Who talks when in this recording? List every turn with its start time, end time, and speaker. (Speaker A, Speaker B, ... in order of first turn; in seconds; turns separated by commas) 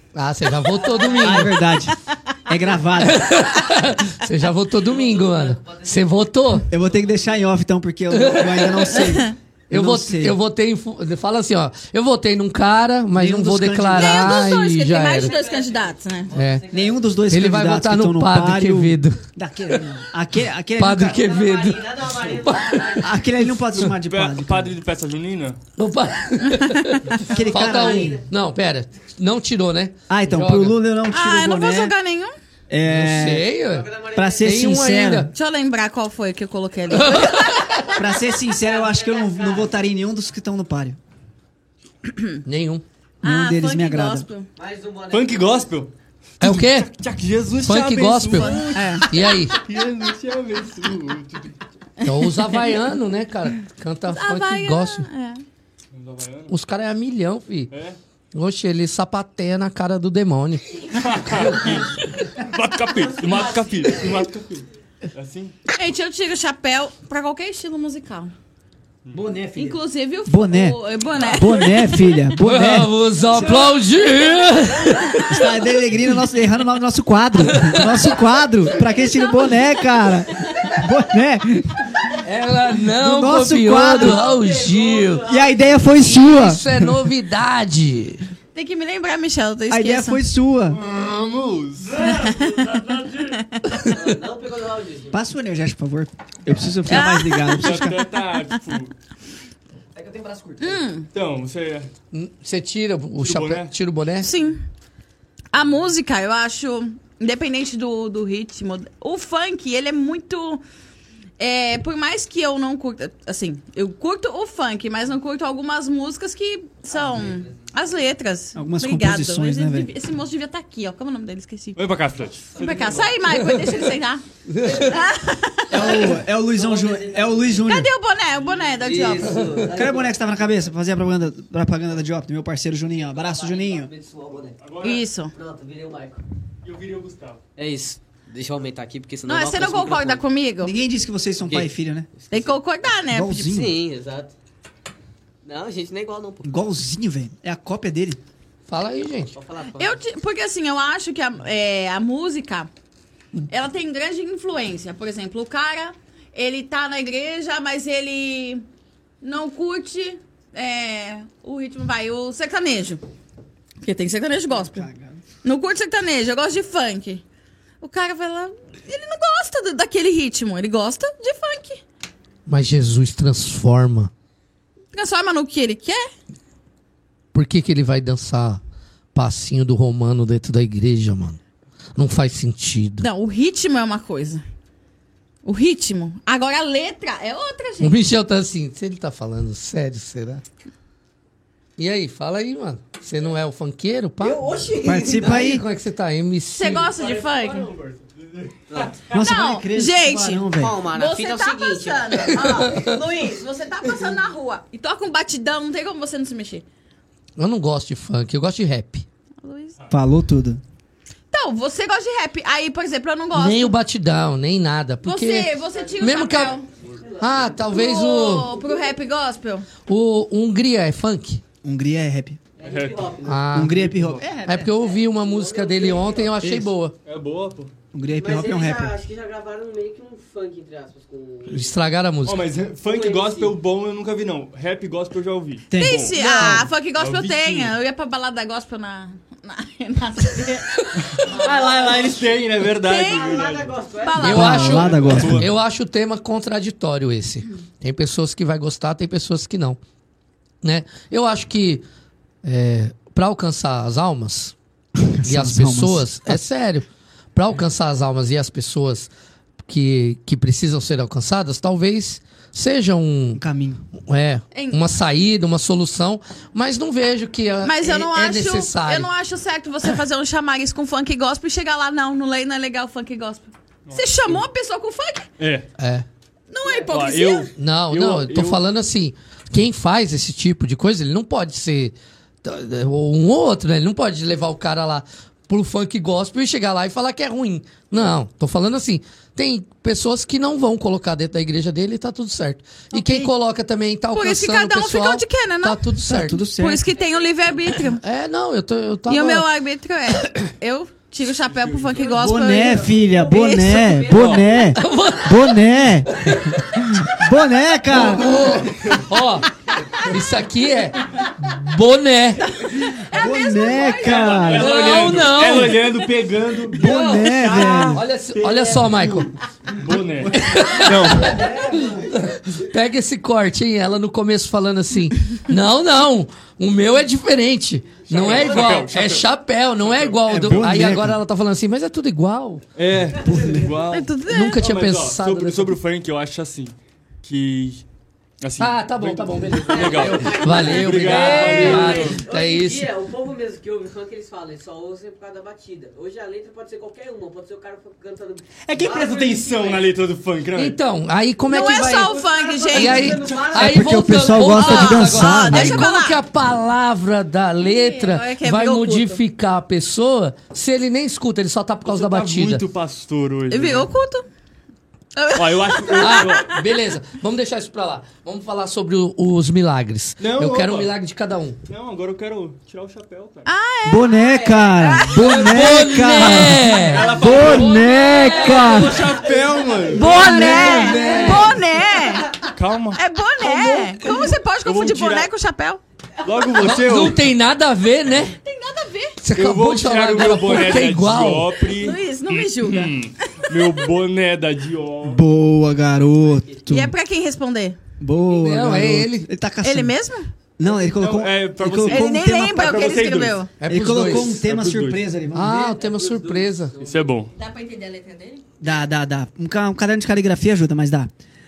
Speaker A: 0.1-1.6, Speaker B: 0.9-1.2, Speaker C: 1.2-3.3, Speaker A: 3.0-6.7, Speaker B: 4.8-6.2, Speaker C: 6.7-10.3, Speaker B: 6.8-7.4, Speaker A: 8.1-9.1, Speaker A: 9.7-15.3, Speaker C: 13.1-14.6, Speaker D: 13.9-16.3, Speaker B: 15.1-17.1, Speaker A: 16.3-16.7, Speaker C: 16.7-21.3, Speaker A: 17.3-19.9, Speaker A: 20.8-23.2, Speaker B: 21.1-23.2, Speaker C: 23.0-24.8, Speaker E: 23.7-25.6, Speaker A: 25.8-30.8, Speaker D: 26.6-26.9, Speaker C: 27.2-28.2, Speaker B: 27.3-28.2, Speaker C: 30.1-31.9, Speaker D: 31.1-32.3, Speaker C: 32.7-33.5, Speaker A: 32.8-35.3, Speaker B: 33.6-34.7, Speaker C: 34.1-35.3, Speaker D: 35.3-37.7, Speaker A: 36.9-38.0, Speaker C: 37.9-41.0, Speaker B: 38.5-39.8, Speaker A: 42.4-42.8, Speaker C: 43.2-44.3, Speaker D: 43.2-44.5, Speaker B: 44.5-45.7, Speaker E: 45.1-51.6, Speaker A: 46.4-46.9, Speaker A: 47.6-49.6, Speaker D: 48.3-49.1, Speaker A: 52.0-55.1, Speaker D: 54.1-55.4, Speaker E: 55.9-56.5, Speaker A: 56.5-57.7, Speaker E: 57.7-58.0, Speaker A: 58.3-60.8, Speaker E: 60.9-65.5, Speaker B: 63.1-64.0, Speaker D: 65.7-68.3, Speaker C: 69.1-72.9, Speaker D: 69.5-72.2, Speaker A: 72.4-75.5, Speaker C: 75.2-82.2, Speaker A: 77.4-78.2, Speaker A: 82.2-85.3, Speaker C: 82.9-84.2, Speaker B: 83.9-85.9, Speaker C: 85.3-87.0, Speaker A: 86.0-88.3, Speaker D: 88.5-90.2, Speaker C: 89.7-90.8, Speaker E: 90.7-92.9, Speaker D: 92.0-93.8, Speaker B: 93.8-95.2, Speaker C: 95.1-98.0, Speaker D: 96.9-97.9, Speaker E: 97.5-98.9, Speaker B: 99.9-100.8, Speaker D: 100.6-101.1, Speaker E: 101.1-101.9, Speaker A: 102.1-104.3, Speaker E: 103.2-103.7, Speaker D: 104.2-104.6, Speaker D: 105.5-110.6, Speaker D: 111.4-121.8, Speaker B: 116.9-117.5, Speaker C: 118.5-119.9, Speaker E: 121.8-123.2, Speaker D: 122.5-126.2, Speaker A: 123.3-123.8, Speaker A: 124.5-125.0, Speaker C: 125.7-127.9, Speaker B: 125.7-127.7, Speaker D: 127.6-129.4, Speaker B: 128.5-130.2, Speaker C: 129.6-133.9, Speaker B: 132.8-134.6, Speaker E: 134.6-135.0, Speaker D: 134.8-135.3, Speaker B: 135.3-136.2, Speaker E: 136.6-137.4, Speaker B: 137.6-140.2, Speaker D: 139.2-140.7, Speaker C: 140.6-142.1, Speaker B: 141.4-142.5, Speaker D: 142.3-143.4, Speaker C: 143.1-143.8, Speaker B: 143.3-144.3, Speaker B: 145.4-146.5, Speaker C: 146.4-148.2, Speaker A: 148.7-149.3, Speaker B: 149.3-150.0, Speaker D: 149.8-152.7, Speaker D: 153.5-158.6, Speaker D: 159.2-163.0, Speaker D: 163.8-164.9, Speaker C: 164.5-165.2, Speaker D: 165.4-167.2, Speaker D: 167.8-171.8, Speaker A: 172.5-174.1, Speaker D: 174.9-176.1, Speaker A: 177.3-178.6, Speaker A: 179.1-181.4, Speaker A: 181.9-183.1, Speaker D: 183.0-184.4, Speaker D: 185.4-188.0, Speaker A: 187.8-190.4, Speaker A: 191.8-194.4, Speaker B: 194.2-195.3, Speaker C: 194.8-195.6, Speaker A: 195.0-196.9, Speaker D: 196.5-197.7, Speaker E: 196.8-199.0, Speaker B: 198.7-199.0, Speaker C: 199.1-200.8, Speaker D: 199.1-206.6, Speaker B: 200.5-203.3, Speaker A: 202.4-202.9, Speaker A: 207.4-209.1, Speaker D: 209.4-209.8, Speaker C: 209.9-210.6, Speaker D: 211.3-213.7, Speaker A: 213.3-216.6, Speaker D: 215.0-216.7, Speaker B: 215.7-216.2, Speaker B: 216.8-217.7, Speaker A: 217.2-218.5, Speaker D: 217.7-219.7, Speaker B: 218.5-218.9, Speaker A: 219.8-221.4, Speaker C: 221.6-222.4, Speaker B: 222.6-223.5, Speaker E: 222.6-224.2, Speaker A: 223.2-223.8, Speaker C: 223.5-224.6, Speaker B: 224.2-226.4, Speaker A: 224.4-226.9, Speaker C: 226.4-226.7, Speaker E: 227.0-227.7, Speaker C: 227.9-229.0, Speaker B: 228.1-231.7, Speaker A: 231.5-232.5, Speaker E: 232.2-237.7, Speaker B: 232.8-233.5, Speaker C: 235.7-236.7, Speaker D: 235.8-241.0, Speaker E: 241.0-243.8, Speaker B: 241.2-242.0, Speaker D: 242.8-243.4, Speaker B: 243.0-244.3, Speaker D: 244.0-245.0, Speaker C: 244.2-245.5, Speaker A: 244.2-249.8, Speaker E: 244.6-245.5, Speaker A: 250.6-251.8, Speaker A: 252.4-254.5, Speaker C: 255.0-256.4, Speaker A: 255.2-259.1, Speaker A: 259.6-263.4, Speaker C: 263.3-263.8, Speaker A: 264.0-269.1, Speaker D: 264.5-264.8, Speaker D: 267.6-275.3, Speaker E: 273.9-274.4, Speaker E: 275.4-275.7, Speaker A: 275.8-276.1, Speaker D: 276.5-277.5, Speaker E: 276.7-278.6, Speaker A: 277.5-296.4, Speaker D: 292.9-293.3, Speaker D: 294.1-295.9, Speaker C: 296.0-296.8, Speaker D: 296.6-298.0, Speaker B: 296.9-297.8, Speaker A: 297.8-299.5, Speaker D: 299.1-304.0, Speaker E: 301.4-302.1, Speaker C: 302.1-308.6, Speaker B: 302.6-304.8, Speaker E: 304.1-304.5, Speaker A: 304.7-306.9, Speaker A: 307.9-312.5, Speaker E: 308.8-309.0, Speaker D: 312.6-314.9, Speaker C: 313.0-314.8, Speaker E: 314.0-321.4, Speaker A: 314.6-315.9, Speaker C: 316.7-318.0, Speaker A: 316.8-319.3, Speaker A: 320.3-332.6, Speaker B: 321.2-322.1, Speaker E: 328.1-330.9, Speaker C: 330.2-331.2, Speaker E: 332.8-337.8, Speaker C: 333.2-333.7, Speaker D: 333.9-334.6, Speaker A: 334.3-335.8, Speaker E: 338.4-342.2, Speaker A: 338.6-342.9, Speaker B: 339.7-349.8, Speaker E: 348.6-350.8, Speaker A: 350.6-352.1, Speaker D: 351.5-353.2, Speaker B: 352.0-354.1, Speaker A: 352.7-362.6, Speaker C: 353.3-355.9, Speaker D: 354.4-356.2, Speaker D: 357.6-359.2, Speaker E: 361.8-363.9, Speaker D: 363.5-364.2, Speaker D: 365.1-366.6, Speaker E: 365.3-366.5, Speaker A: 366.0-371.6, Speaker E: 370.2-370.9, Speaker E: 371.7-373.4, Speaker D: 373.4-376.1, Speaker C: 373.8-379.1, Speaker B: 374.3-374.9, Speaker A: 375.2-379.0, Speaker E: 376.1-381.1, Speaker B: 379.0-379.4, Speaker D: 379.9-382.4, Speaker A: 379.9-381.6, Speaker C: 380.0-381.2, Speaker B: 380.9-381.3, Speaker B: 382.1-382.5, Speaker E: 382.5-385.3, Speaker D: 382.9-385.8, Speaker E: 386.2-387.2, Speaker A: 386.6-388.3, Speaker D: 388.4-389.2, Speaker A: 389.2-391.6, Speaker E: 389.3-395.2, Speaker D: 391.8-392.9, Speaker C: 395.0-396.9, Speaker D: 396.7-397.8, Speaker C: 398.0-399.9, Speaker A: 398.3-399.3, Speaker D: 399.6-400.3, Speaker C: 400.6-403.0, Speaker E: 400.7-403.4, Speaker D: 401.9-403.5, Speaker A: 403.6-404.4, Speaker C: 403.7-405.8, Speaker E: 403.9-405.0, Speaker A: 405.3-406.7, Speaker B: 405.5-407.1, Speaker E: 406.8-407.3, Speaker D: 407.3-408.4, Speaker C: 408.6-411.1